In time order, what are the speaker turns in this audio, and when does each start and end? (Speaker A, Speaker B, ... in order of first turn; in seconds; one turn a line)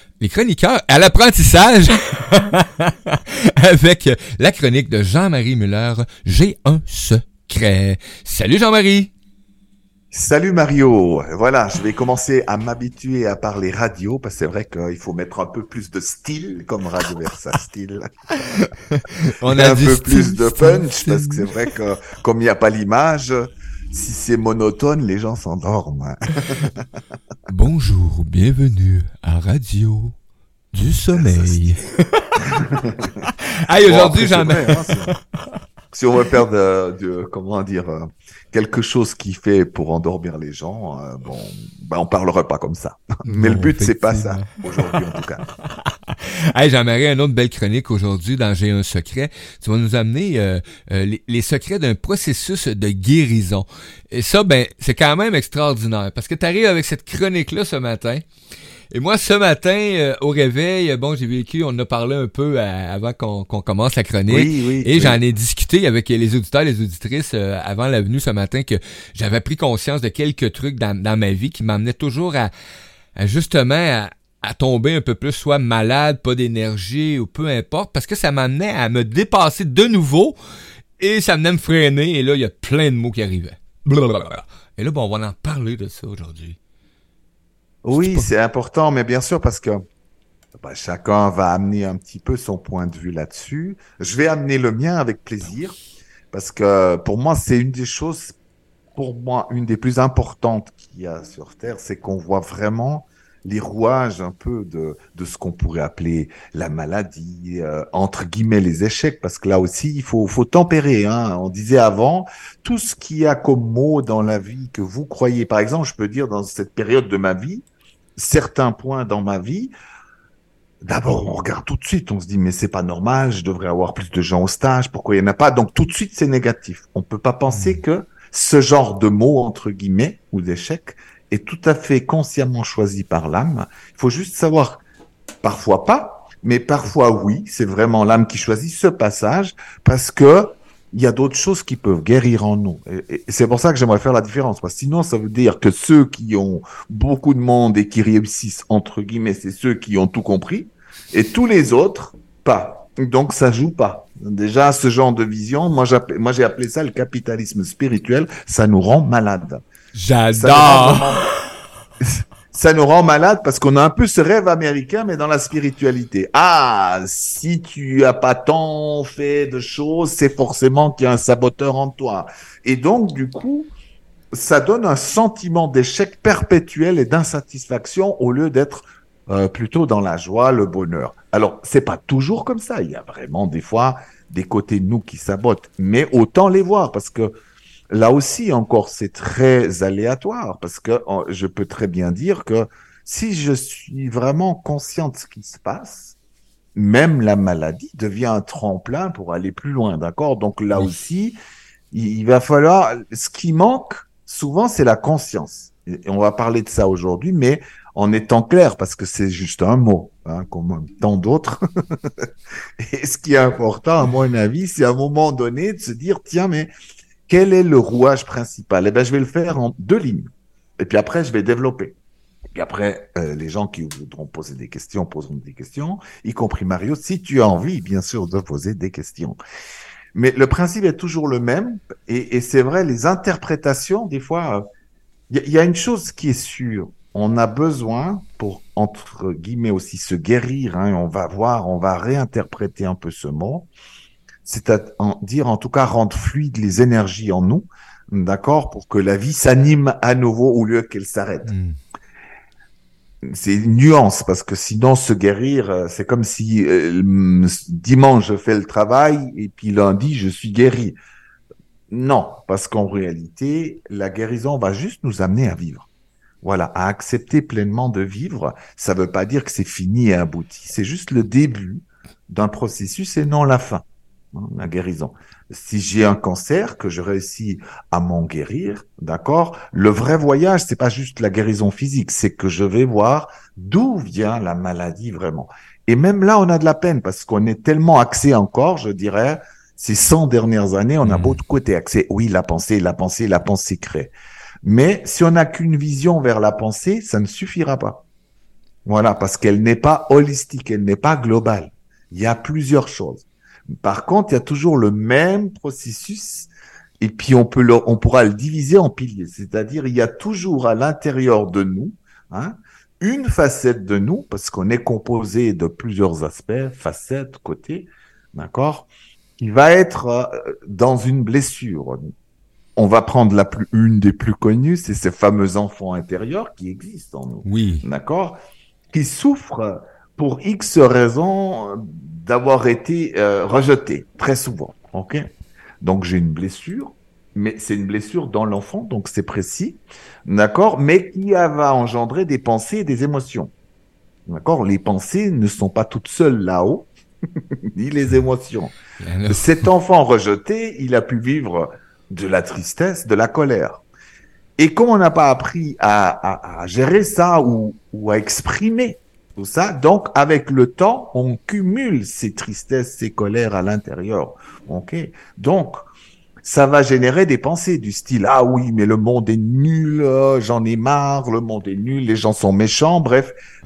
Speaker A: 0.2-9.1
Speaker B: 10.1-18.1
Speaker A: 18.4-21.7
Speaker B: 19.5-26.8
Speaker A: 27.5-30.1
Speaker A: 30.7-32.6
Speaker B: 31.1-31.7
Speaker B: 32.5-33.1
Speaker A: 33.2-35.0
Speaker B: 33.8-35.1
Speaker B: 35.9-45.5
Speaker A: 43.3-45.0
Speaker A: 45.6-58.2
Speaker A: 58.9-72.5
Speaker B: 64.3-65.2
Speaker A: 73.2-80.3
Speaker A: 81.0-86.6
Speaker B: 87.8-89.8
Speaker A: 87.9-88.3
Speaker B: 90.5-95.8
Speaker B: 96.3-98.3
Speaker B: 99.0-117.6
Speaker B: 118.2-119.7
Speaker B: 120.8-134.8
Speaker A: 127.5-127.8
Speaker B: 135.4-159.6
Speaker A: 159.9-161.2
Speaker B: 160.3-161.2
Speaker B: 162.0-173.7
Speaker B: 174.3-187.3
Speaker B: 187.9-196.2
Speaker B: 196.7-201.3
Speaker B: 201.9-212.3
Speaker B: 212.8-216.7
Speaker B: 217.3-221.9
Speaker B: 222.5-229.4
Speaker B: 230.1-234.6
Speaker B: 235.3-243.7
Speaker B: 244.4-251.5
Speaker A: 251.4-251.8
Speaker B: 253.2-261.0
Speaker B: 261.9-265.9
Speaker B: 266.4-298.0
Speaker A: 291.0-291.4
Speaker B: 298.9-306.5
Speaker B: 307.0-322.1
Speaker B: 322.8-328.4
Speaker A: 327.4-327.8
Speaker B: 328.9-335.2
Speaker B: 335.8-343.5
Speaker B: 344.3-346.9
Speaker B: 347.7-348.7
Speaker A: 349.0-349.7
Speaker B: 349.3-353.8
Speaker B: 354.6-365.8
Speaker B: 366.4-373.3